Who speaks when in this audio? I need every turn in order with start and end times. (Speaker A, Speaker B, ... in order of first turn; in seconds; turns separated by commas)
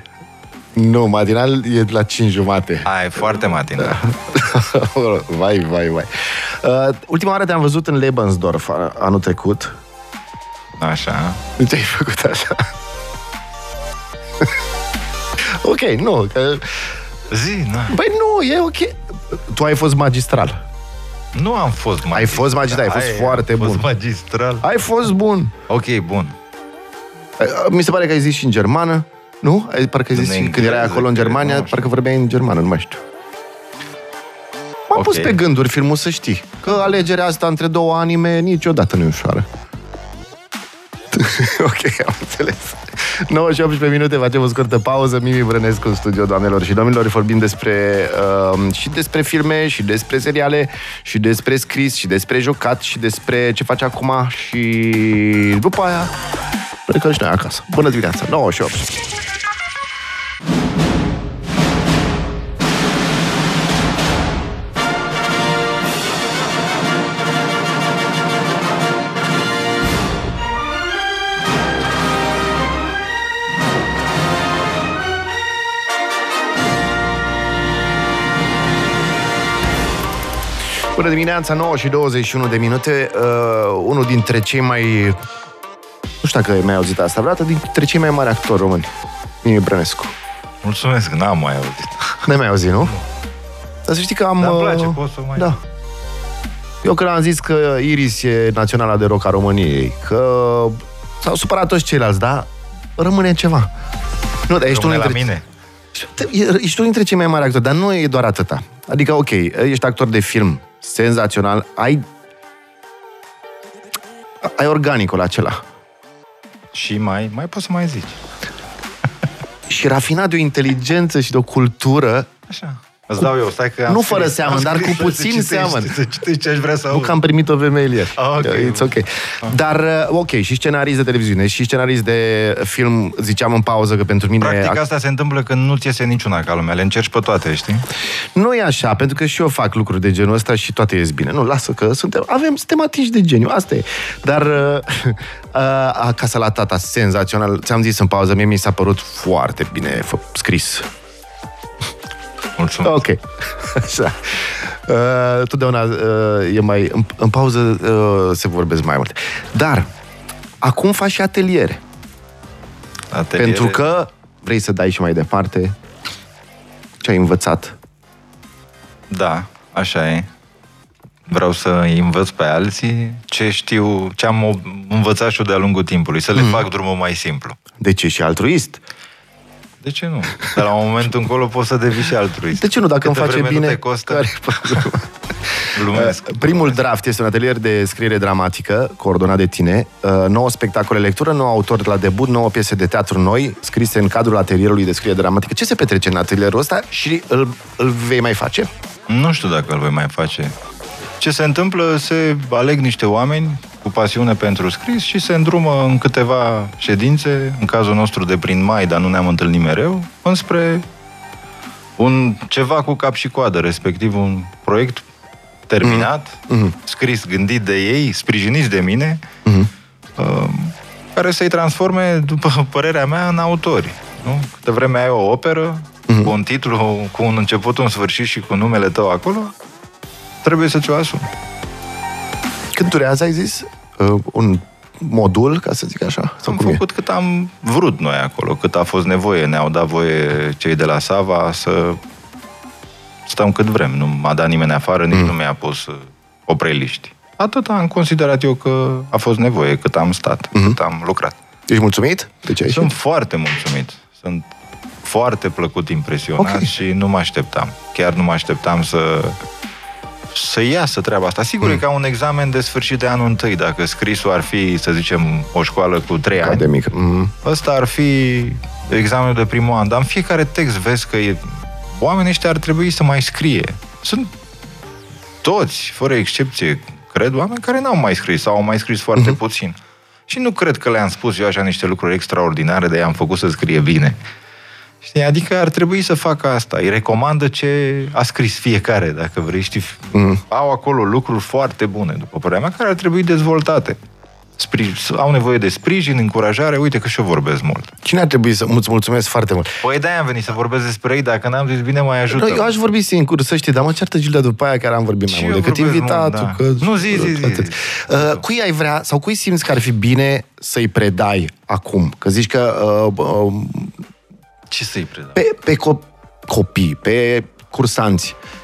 Speaker A: 0.7-2.9, Speaker B: 2.8-4.1, Speaker A: 3.8-9.8, Speaker B: 10.8-11.4, Speaker A: 11.6-12.7, Speaker A: 15.4-16.9, Speaker B: 17.3-18.0, Speaker A: 17.9-20.6, Speaker B: 21.3-24.6, Speaker A: 22.1-23.9, Speaker A: 24.6-25.5, Speaker B: 25.7-26.4, Speaker A: 27.4-33.0, Speaker B: 30.1-31.9, Speaker A: 34.9-39.5, Speaker B: 34.9-35.4, Speaker A: 41.1-56.1, Speaker A: 56.9-59.0, Speaker A: 80.9-85.2, Speaker A: 86.2-90.2, Speaker B: 90.6-92.3, Speaker A: 92.2-92.9, Speaker A: 93.8-95.6, Speaker B: 94.4-95.6, Speaker A: 96.8-103.7, Speaker A: 104.5-105.2, Speaker B: 104.6-105.4, Speaker A: 105.9-112.0, Speaker A: 114.4-115.6, Speaker B: 116.7-118.2, Speaker A: 119.7-122.3, Speaker B: 122.5-127.2, Speaker A: 123.9-125.9, Speaker A: 126.9-134.8, Speaker B: 128.1-129.5, Speaker B: 134.4-137.8, Speaker A: 138.3-150.9, Speaker B: 152.6-153.0, Speaker A: 152.8-159.9, Speaker A: 160.6-161.8, Speaker B: 163.1-163.8, Speaker A: 163.4-165.8, Speaker A: 167.0-167.8, Speaker B: 169.1-170.3, Speaker B: 171.3-177.6, Speaker A: 176.3-176.6, Speaker A: 177.8-178.8, Speaker B: 179.8-184.8, Speaker A: 182.5-198.7, Speaker B: 185.7-186.8, Speaker B: 199.1-200.5, Speaker B: 201.2-210.8, Speaker B: 212.0-215.0, Speaker B: 215.7-219.2, Speaker A: 215.8-216.7, Speaker A: 219.4-219.7, Speaker B: 220.2-229.5, Speaker A: 226.1-226.3, Speaker B: 230.4-231.3, Speaker A: 232.7-236.8, Speaker B: 236.4-242.0, Speaker B: 243.2-251.4, Speaker A: 251.7-252.9, Speaker B: 252.6-254.5, Speaker B: 255.0-259.4, Speaker A: 256.4-256.7, Speaker B: 260.3-266.7, Speaker A: 266.4-267.3, Speaker B: 267.4-274.3, Speaker B: 275.4-284.2, Speaker B: 285.0-294.0, Speaker A: 290.1-290.4, Speaker B: 294.6-297.9, Speaker A: 298.0-299.7, Speaker B: 299.8-302.8, Speaker A: 302.3-314.0, Speaker B: 305.3-308.4, Speaker B: 314.7-315.4, Speaker A: 315.4-318.4